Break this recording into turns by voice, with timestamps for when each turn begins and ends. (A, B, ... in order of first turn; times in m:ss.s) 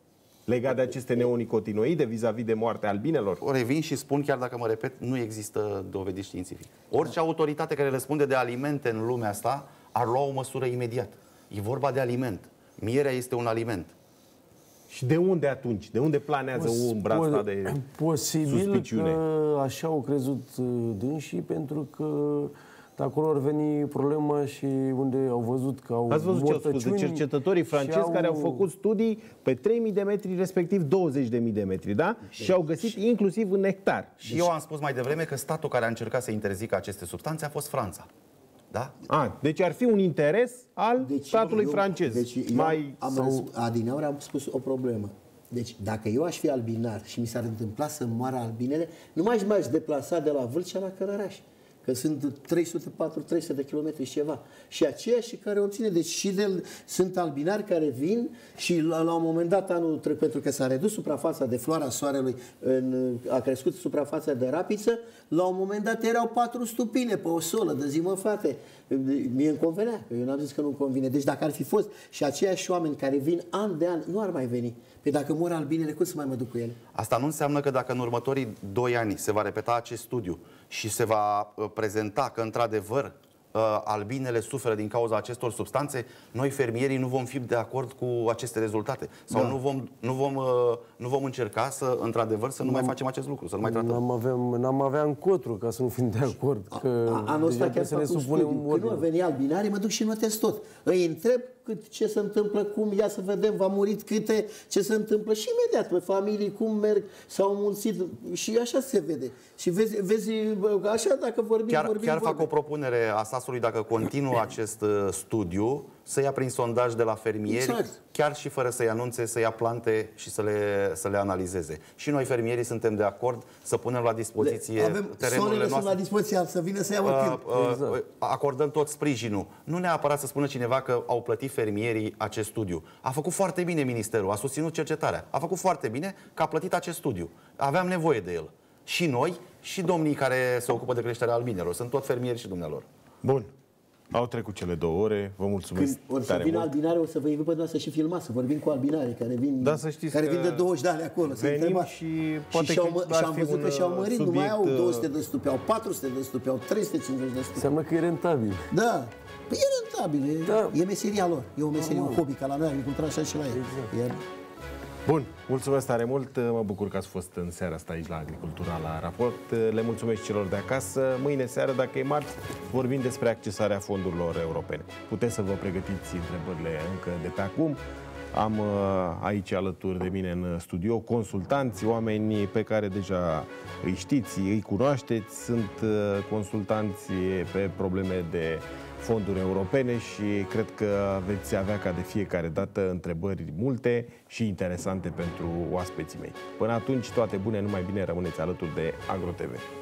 0:00.5-0:03.4 A
0:03.4-0:13.9 B
0:14.9-0:17.8 A
0:16.6-0:28.6 C
0:18.4-0:19.2 A
0:26.1-0:34.2 A
0:34.2-0:38.1 B
0:39.1-0:43.5 A
0:41.0-1:16.8 D
1:16.9-1:34.0 B
1:32.6-1:33.0 C
1:33.6-1:39.0 C
1:36.7-1:52.5 D
1:51.7-2:06.0 B
1:57.5-1:57.9 D
2:04.4-2:07.5 D
2:07.0-2:22.8 B
2:07.5-2:08.0 C
2:23.2-2:23.5 A
2:24.1-2:26.7 A
2:25.7-2:31.9 D
2:29.6-2:30.7 A
2:31.2-2:35.1 A
2:32.5-2:37.7 D
2:37.6-2:38.7 C
2:38.7-2:44.2 D
2:40.5-2:40.8 C
2:41.7-2:42.2 C
2:43.5-2:43.9 C
2:45.0-2:57.8 A
2:58.3-3:19.6 A